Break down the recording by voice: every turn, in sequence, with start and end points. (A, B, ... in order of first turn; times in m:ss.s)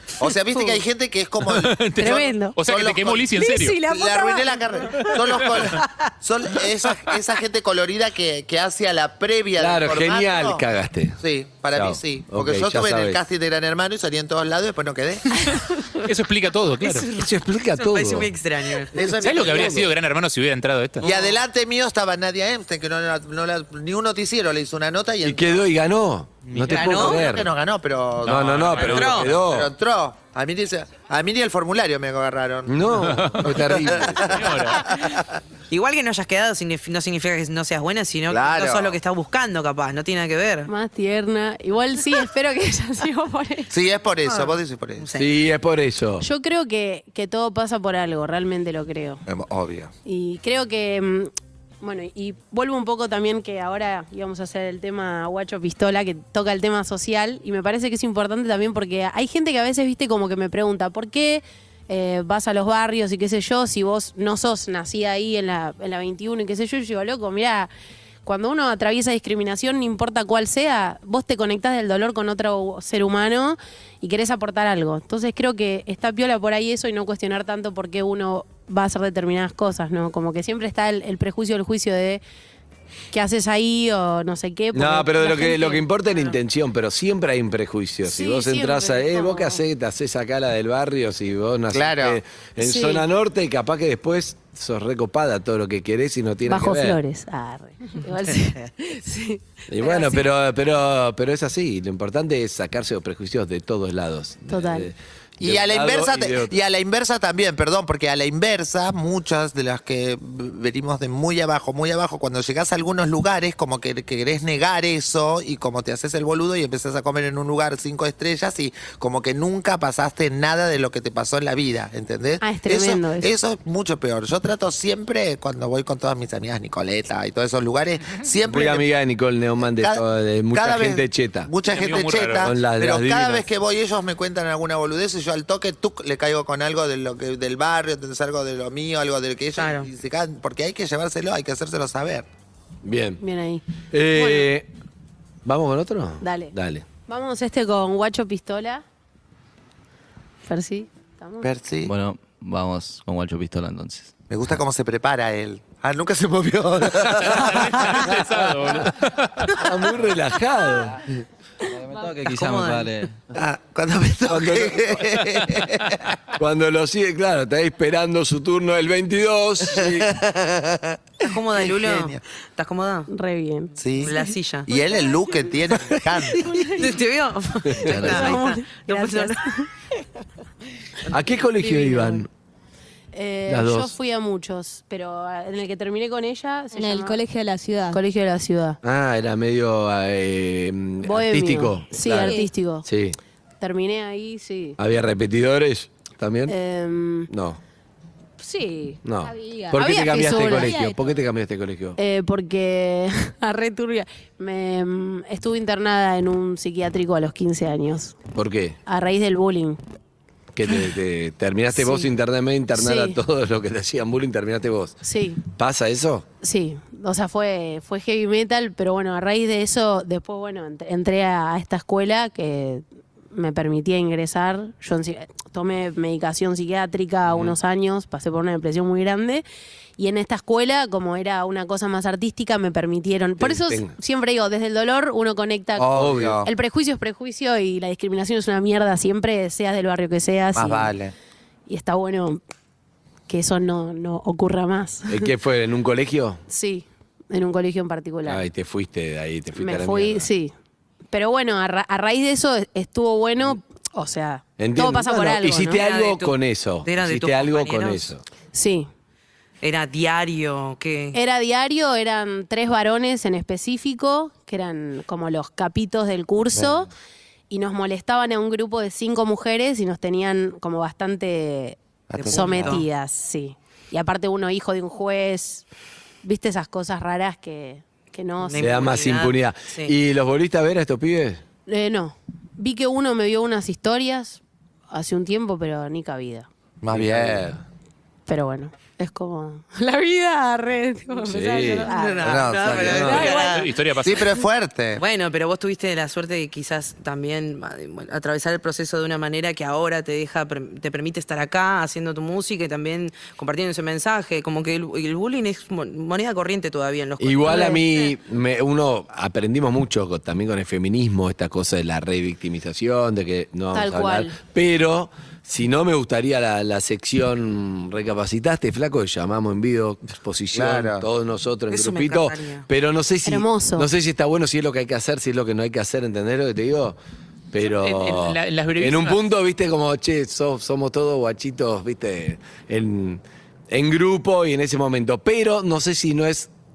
0:00.2-0:03.3 A
0:01.5-0:03.8 B
0:02.0-0:02.6 C
0:03.3-0:05.2 C
0:03.8-0:10.6 A
0:05.4-0:05.7 B
0:09.6-0:11.2 D
0:11.2-0:15.5 A
0:11.7-0:13.2 D
0:16.0-0:17.1 B
0:16.8-0:18.9 E
0:17.1-0:18.3 D
0:18.9-0:19.9 A
0:19.2-0:21.0 B
0:19.2-0:19.8 D
0:21.0-0:21.4 E
0:21.0-0:25.6 A
0:25.2-0:27.5 D
0:26.4-0:26.9 B
0:26.7-0:27.2 E
0:26.7-0:35.2 A
0:28.2-0:29.7 D
0:28.3-0:29.3 B
0:28.8-0:29.3 E
0:32.7-0:34.4 D
0:33.1-0:33.4 B
0:34.2-0:35.0 B
0:35.7-0:40.7 E
0:38.3-0:39.0 A
0:40.7-0:43.7 C
0:43.7-0:45.1 A
0:44.2-0:45.3 E
0:45.2-0:46.2 D
0:46.2-0:49.2 C
0:49.2-0:49.9 A
0:50.0-0:51.3 C
0:51.8-1:07.7 C
1:08.2-1:22.2 C
1:23.1-1:25.8 C
1:24.7-1:37.0 D
1:28.0-1:29.6 C
1:31.7-1:32.2 A
1:32.6-1:33.0 C
1:36.4-1:40.2 C
1:39.7-1:46.5 D
1:44.5-1:44.9 C
1:45.4-2:08.9 A
2:02.4-2:03.3 C
2:08.4-2:11.5 D
2:09.6-2:22.2 A
2:11.6-2:12.5 B
2:12.4-2:13.5 D
2:19.6-2:19.9 E
2:22.8-2:23.2 D
2:23.2-2:24.5 C
2:23.9-2:24.7 D
2:25.4-2:26.8 D
2:26.2-2:26.5 C
2:27.1-2:28.8 C
2:30.5-2:31.5 C
2:31.4-2:31.9 A
2:31.8-2:34.1 F
2:34.3-2:38.1 A
2:37.2-2:39.6 B
2:38.2-2:38.9 D
2:39.5-2:41.0 D
2:41.7-2:43.2 F
2:42.3-2:42.9 E
2:43.3-2:46.0 A
2:44.3-2:44.9 D
2:46.4-2:50.1 D
2:49.7-2:52.2 A
2:51.2-2:53.1 E
2:53.1-2:53.7 C
2:53.8-2:56.6 A
2:54.0-2:54.7 E
2:56.3-2:56.9 C
2:56.8-2:59.4 E
2:57.7-2:58.1 D
2:57.9-2:59.7 C
3:01.1-3:02.3 D
3:01.6-3:02.2 C
3:03.1-3:07.2 C
3:03.5-3:03.9 D
3:06.7-3:08.0 G
3:07.9-3:08.8 C
3:08.8-3:13.2 D
3:11.0-3:12.8 C
3:12.2-3:12.5 G
3:13.6-3:14.8 C
3:14.8-3:16.5 D
3:16.5-3:17.3 C
3:17.3-3:17.6 D
3:18.4-3:19.0 C
3:19.0-3:22.0 D
3:19.2-3:21.2 G
3:19.7-3:20.8 C
3:22.0-3:28.2 C
3:28.3-3:28.8 D
3:28.8-3:29.8 C
3:30.5-3:35.0 D
3:31.7-3:32.1 C
3:32.7-3:33.2 C
3:35.0-3:35.4 C
3:35.6-3:36.2 D
3:36.4-3:49.4 C
3:50.0-3:55.9 C
3:53.4-3:53.9 D
3:55.8-3:56.5 A
3:55.9-3:56.4 D
3:56.4-4:00.9 C
4:00.5-4:01.1 A
4:01.7-4:02.4 C
4:03.3-4:05.3 C
4:05.1-4:06.4 D
4:06.5-4:08.4 C
4:08.2-4:10.3 D
4:09.6-4:10.5 C
4:11.1-4:15.8 C
4:14.6-4:18.2 D
4:15.7-4:18.1 E
4:18.5-4:18.9 C
4:19.6-4:21.2 E
4:21.1-4:26.9 C
4:27.5-4:35.6 C
4:32.1-4:32.8 A
4:32.2-4:32.8 E
4:36.2-4:38.7 C
4:38.4-4:39.9 E
4:38.6-4:41.4 D
4:41.7-4:46.5 C
4:46.8-4:47.5 A
4:46.9-4:47.6 D
4:48.3-4:53.7 C
4:51.2-4:51.9 D
4:51.9-4:53.7 E
4:52.2-4:53.4 A
4:53.1-4:54.4 B
4:54.0-4:55.0 A
4:55.0-5:08.1 E
5:07.2-5:27.0 D
5:07.4-5:07.8 C
5:13.7-5:14.4 C
5:20.5-5:21.1 A
5:21.7-5:22.7 E
5:23.2-5:23.9 C
5:27.5-5:36.5 D
5:27.6-5:29.2 B